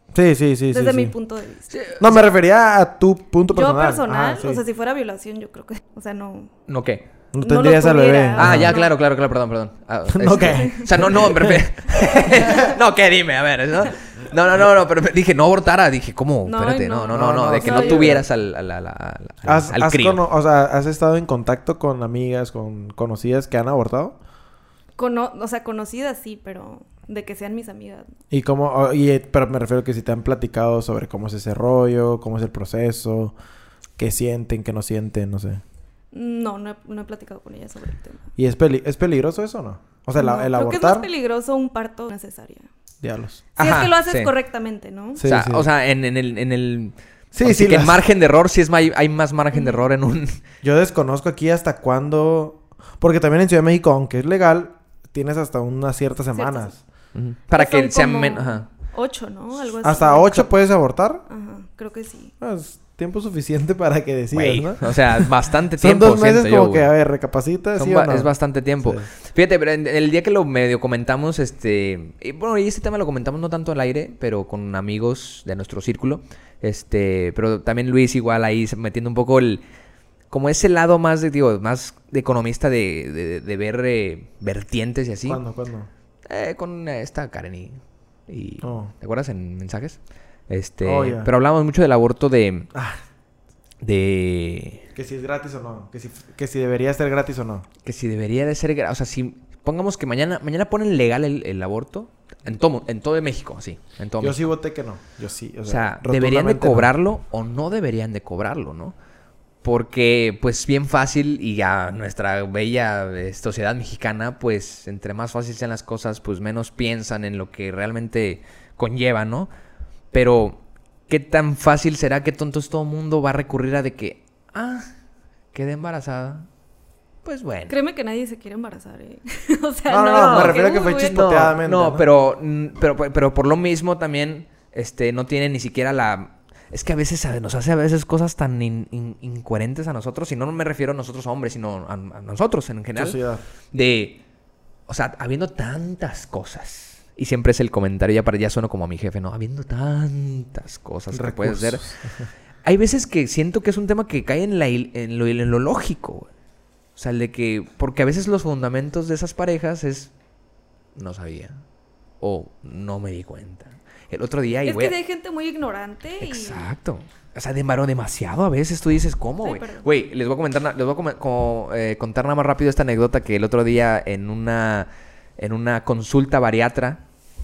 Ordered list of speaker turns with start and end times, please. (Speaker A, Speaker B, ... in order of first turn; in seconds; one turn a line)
Speaker A: 0.1-1.1
Speaker B: 0.7-1.7
Speaker C: 1.7-2.2
Speaker A: 2.0-4.6
Speaker B: 3.5-6.5
Speaker C: 6.7-7.0
Speaker A: 7.3-8.8
Speaker B: 7.4-8.9
Speaker C: 8.4-20.2
Speaker A: 10.1-11.6
Speaker B: 10.3-11.2
Speaker B: 16.4-18.2
Speaker A: 17.1-18.2
Speaker A: 19.4-24.2
Speaker B: 25.0-28.1
Speaker A: 28.3-33.4
Speaker A: 34.0-35.6
Speaker B: 36.1-38.2
Speaker A: 38.4-41.1
Speaker B: 40.1-42.7
Speaker A: 43.0-43.4
Speaker B: 43.6-45.2
Speaker C: 43.6-44.3
Speaker A: 45.2-45.7
Speaker C: 45.2-50.4
Speaker A: 47.3-48.0
Speaker B: 49.5-49.8
Speaker A: 50.6-56.8
Speaker B: 56.3-56.7
Speaker C: 57.1-58.6
Speaker B: 57.5-60.5
Speaker A: 59.8-61.2
Speaker B: 61.3-62.3
Speaker A: 62.4-68.3
Speaker C: 64.3-66.9
Speaker C: 67.8-79.6
Speaker A: 68.8-69.1
Speaker C: 80.3-85.4
Speaker A: 85.2-85.9
Speaker C: 86.3-92.7
Speaker A: 88.6-88.9
Speaker A: 90.8-91.3
Speaker A: 92.7-93.0
Speaker C: 93.8-94.8
Speaker A: 94.9-97.7
Speaker C: 97.8-104.5
Speaker A: 104.2-106.9
Speaker C: 105.7-109.0
Speaker C: 109.6-119.5
Speaker C: 120.1-124.8
Speaker C: 125.5-126.5
Speaker C: 127.2-127.7
Speaker B: 127.7-131.3
Speaker A: 129.9-132.1
Speaker C: 130.1-143.2
Speaker A: 142.9-143.4
Speaker C: 143.7-144.2
Speaker C: 144.9-151.8
Speaker A: 151.1-152.3
Speaker C: 152.6-156.3
Speaker C: 156.9-160.1
Speaker C: 160.9-161.6
Speaker C: 162.2-164.9
Speaker B: 164.6-166.7
Speaker C: 166.2-177.0
Speaker B: 169.4-169.8